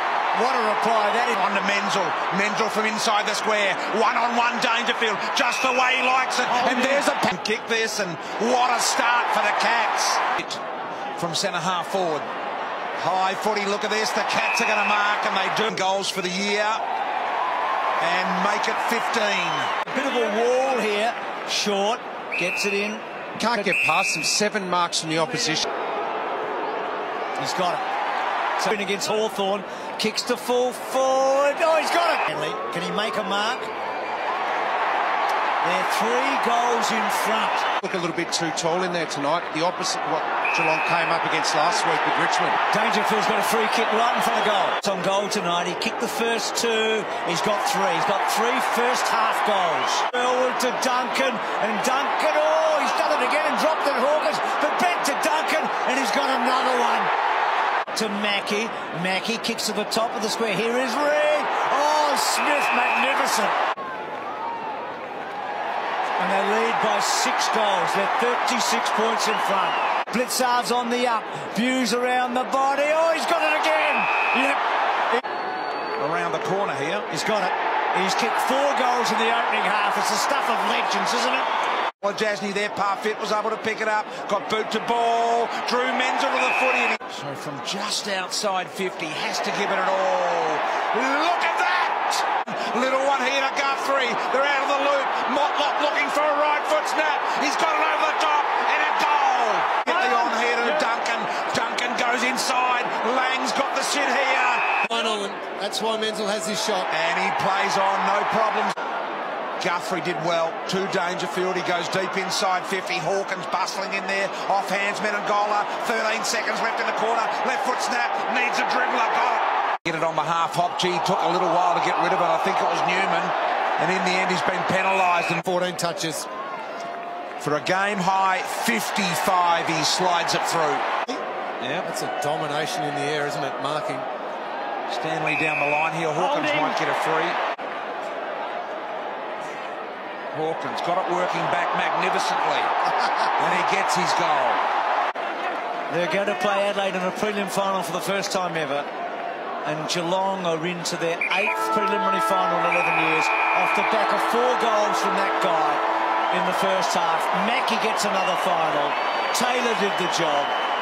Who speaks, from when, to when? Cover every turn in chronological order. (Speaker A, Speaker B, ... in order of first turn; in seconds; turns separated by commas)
Speaker A: 0.3-1.4, Speaker B: 1.3-10.6, Speaker A: 6.6-7.0, Speaker B: 11.2-12.2, Speaker B: 13.0-16.8, Speaker B: 18.0-19.7, Speaker A: 19.9-23.7, Speaker C: 23.4-25.6, Speaker A: 27.4-27.8, Speaker A: 28.6-33.7, Speaker A: 35.6-37.6, Speaker C: 37.8-42.6, Speaker A: 42.7-57.1, Speaker A: 57.9-63.5, Speaker A: 66.2-74.6, Speaker B: 76.0-77.1, Speaker A: 77.1-81.5, Speaker B: 82.0-104.8, Speaker D: 104.8-106.9, Speaker B: 106.9-108.7, Speaker B: 109.6-125.4, Speaker D: 125.4-126.3, Speaker B: 127.4-130.8, Speaker B: 131.6-131.8, Speaker D: 131.8-134.1, Speaker B: 134.9-137.4, Speaker A: 136.2-136.8, Speaker B: 140.3-142.7, Speaker B: 143.4-144.6, Speaker A: 145.9-148.9, Speaker A: 149.6-160.5